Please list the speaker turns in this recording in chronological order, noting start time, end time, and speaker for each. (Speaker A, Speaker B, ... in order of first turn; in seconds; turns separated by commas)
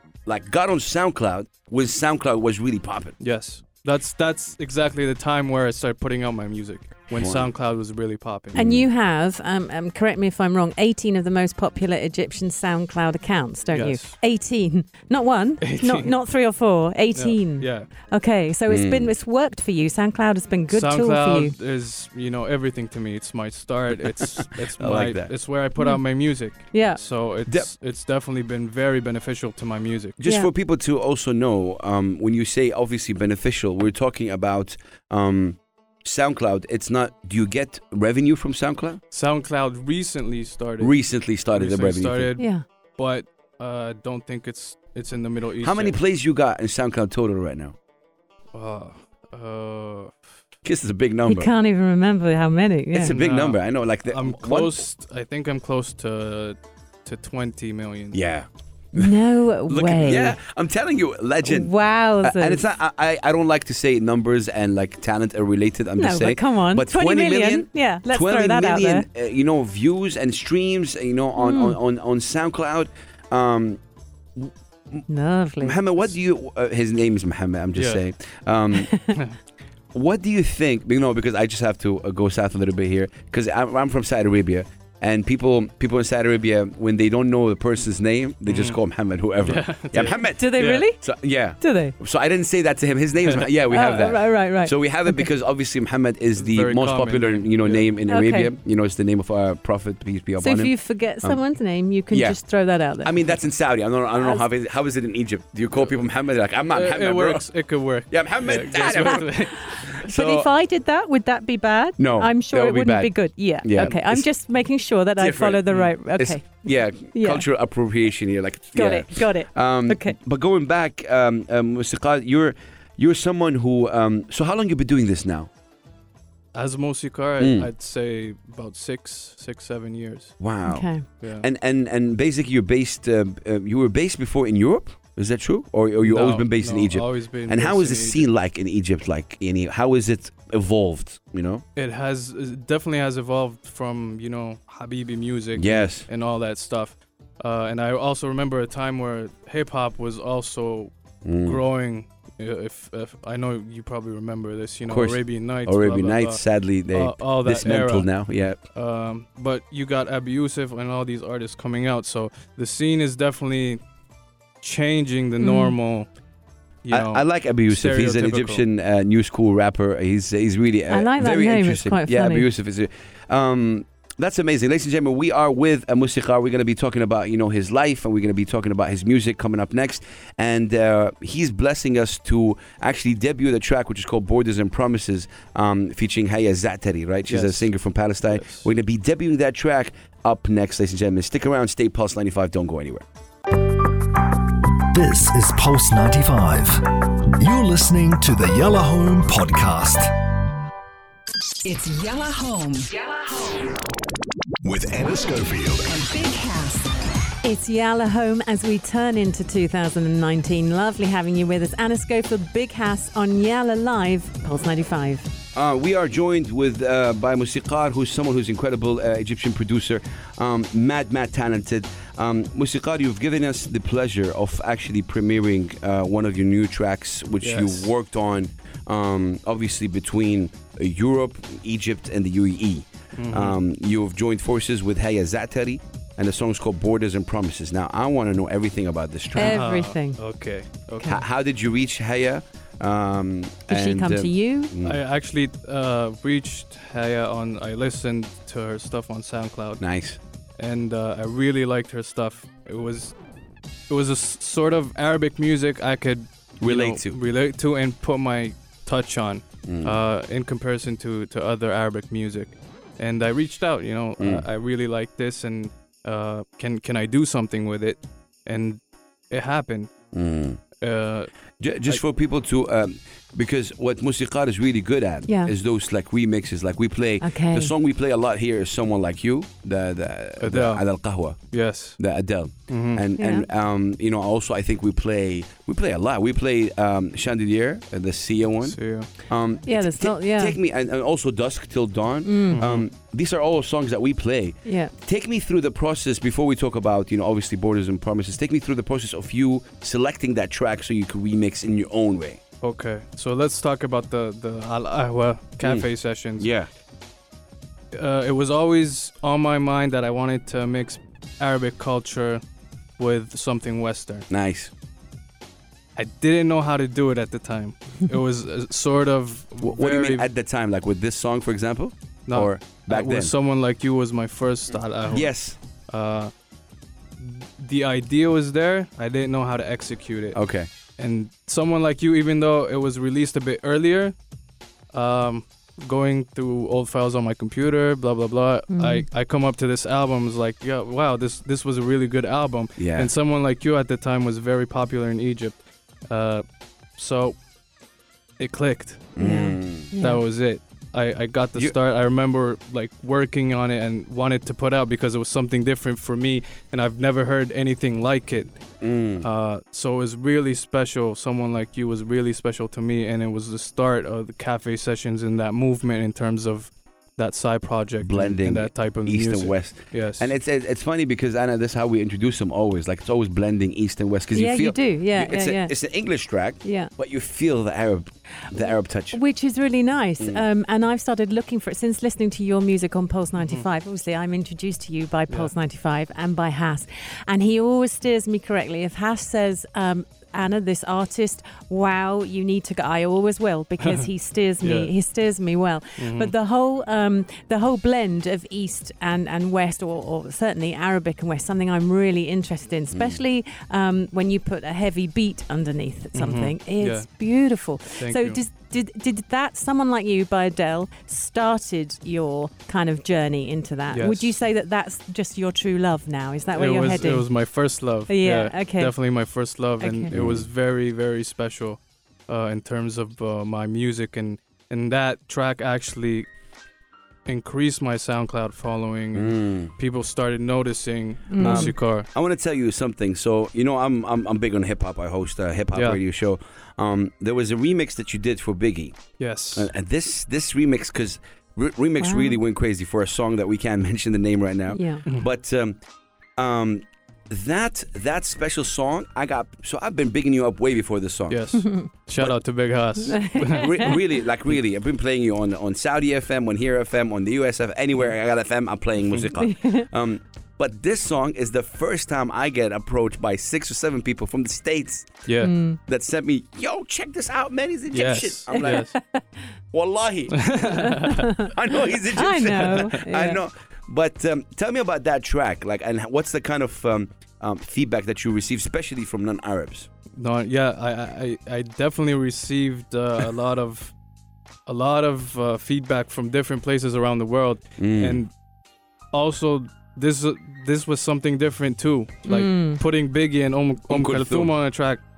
Speaker A: 0.2-3.1, Speaker B: 3.2-8.7, Speaker A: 7.1-7.5, Speaker A: 8.5-8.8, Speaker C: 8.5-21.5, Speaker B: 13.7-14.2, Speaker B: 15.6-16.1, Speaker B: 17.1-17.9, Speaker A: 18.7-19.1, Speaker B: 20.7-30.2, Speaker A: 24.8-25.3, Speaker C: 25.8-27.0, Speaker A: 30.2-39.0, Speaker C: 30.2-30.5, Speaker B: 39.1-46.0, Speaker A: 40.8-42.3, Speaker C: 42.4-42.6, Speaker A: 45.6-47.8, Speaker B: 48.5-50.2, Speaker A: 50.6-51.5, Speaker C: 51.3-53.1, Speaker A: 52.9-54.8, Speaker B: 53.0-58.2, Speaker A: 58.1-59.1, Speaker C: 58.9-60.4, Speaker A: 59.7-73.8, Speaker C: 61.4-62.6, Speaker C: 66.0-69.0, Speaker C: 71.4-71.8, Speaker A: 74.3-75.0, Speaker C: 75.1-75.8, Speaker A: 75.6-78.9, Speaker B: 77.7-78.0, Speaker C: 78.7-79.2, Speaker A: 79.9-101.4, Speaker B: 88.5-88.8, Speaker B: 89.4-90.8, Speaker C: 90.3-91.0, Speaker C: 91.6-92.0, Speaker B: 93.2-94.0, Speaker C: 93.7-95.3, Speaker B: 96.4-97.9, Speaker C: 98.1-98.5, Speaker C: 100.4-103.1, Speaker A: 102.1-102.4, Speaker A: 103.0-107.5, Speaker C: 104.2-104.5, Speaker B: 106.7-109.7, Speaker A: 108.1-110.5, Speaker C: 108.8-109.3, Speaker C: 110.0-117.4, Speaker A: 112.0-114.3, Speaker A: 115.2-125.5, Speaker C: 118.7-120.1, Speaker B: 126.5-130.4, Speaker A: 127.4-127.7, Speaker A: 130.4-141.6, Speaker C: 130.6-131.0, Speaker B: 131.2-131.5, Speaker B: 136.0-138.3, Speaker B: 141.8-150.9, Speaker A: 145.6-146.1, Speaker A: 151.2-151.6, Speaker B: 151.4-163.8, Speaker A: 154.9-158.6, Speaker B: 164.6-166.1, Speaker C: 165.4-165.7, Speaker B: 166.8-168.6, Speaker A: 166.9-193.0, Speaker C: 170.9-172.5, Speaker B: 187.3-187.7, Speaker B: 188.3-188.7, Speaker D: 194.9-200.1, Speaker E: 201.6-203.7, Speaker D: 204.6-205.9, Speaker E: 205.8-206.9, Speaker C: 207.4-215.3, Speaker A: 215.5-239.6, Speaker B: 227.4-227.9, Speaker B: 233.2-233.6, Speaker C: 239.3-240.2, Speaker B: 239.3-241.2, Speaker A: 241.0-245.0, Speaker C: 243.7-244.7, Speaker B: 244.8-249.8, Speaker A: 249.8-250.2, Speaker B: 250.6-253.1, Speaker B: 253.9-268.8, Speaker A: 256.6-257.1, Speaker A: 259.7-259.9, Speaker A: 264.2-264.4, Speaker B: 269.3-269.9, Speaker A: 270.1-270.6, Speaker B: 270.8-271.3, Speaker A: 271.6-281.4, Speaker C: 275.3-275.5, Speaker C: 277.2-277.7, Speaker B: 280.4-280.9, Speaker B: 281.5-282.0, Speaker A: 282.0-302.4, Speaker B: 282.7-283.0, Speaker C: 283.2-283.5, Speaker B: 288.6-289.1, Speaker C: 289.6-290.6, Speaker C: 292.2-292.6, Speaker B: 292.5-292.9, Speaker C: 294.6-294.9, Speaker B: 302.6-306.5, Speaker A: 306.4-306.7, Speaker B: 307.9-312.4, Speaker B: 313.0-314.3, Speaker A: 314.3-314.7, Speaker B: 315.9-320.3, Speaker A: 319.6-323.3, Speaker B: 322.3-325.3, Speaker A: 325.1-325.6, Speaker B: 325.9-326.3, Speaker B: 327.2-330.4, Speaker A: 330.3-330.7, Speaker B: 331.0-334.1, Speaker B: 334.9-345.6, Speaker C: 338.7-339.1, Speaker A: 342.8-343.1, Speaker B: 346.1-346.4, Speaker B: 346.9-347.4, Speaker B: 348.4-349.1, Speaker A: 349.1-349.9, Speaker C: 349.2-350.2, Speaker B: 350.0-358.6, Speaker A: 358.8-359.3, Speaker B: 359.2-370.3, Speaker A: 368.0-379.2, Speaker C: 374.3-375.7, Speaker C: 376.6-376.9, Speaker C: 379.1-417.3, Speaker B: 393.8-394.1, Speaker B: 394.6-394.9, Speaker B: 396.0-396.3, Speaker A: 402.9-403.2, Speaker B: 406.1-407.1, Speaker B: 408.0-408.4, Speaker B: 413.9-414.4, Speaker B: 416.5-426.3, Speaker C: 418.1-418.9, Speaker C: 419.8-420.1, Speaker A: 420.1-420.5, Speaker B: 427.2-432.1, Speaker A: 429.1-429.7, Speaker C: 431.3-431.7, Speaker A: 431.4-445.8, Speaker B: 435.7-436.0, Speaker B: 439.2-439.7, Speaker C: 442.0-442.4, Speaker C: 444.7-445.0, Speaker A: 446.4-451.4, Speaker B: 451.3-454.0, Speaker C: 451.6-451.9, Speaker C: 453.1-453.9, Speaker A: 453.5-465.2, Speaker C: 459.4-459.9, Speaker B: 465.2-465.5, Speaker C: 465.4-465.8, Speaker A: 465.9-468.9, Speaker B: 467.9-468.9, Speaker C: 468.5-469.2, Speaker A: 469.7-479.9, Speaker B: 470.4-471.3, Speaker C: 470.7-473.4, Speaker B: 472.6-472.9, Speaker B: 480.2-483.9, Speaker B: 484.7-488.3, Speaker A: 487.8-488.2, Speaker B: 489.1-495.0, Speaker C: 492.2-492.8, Speaker A: 493.9-494.5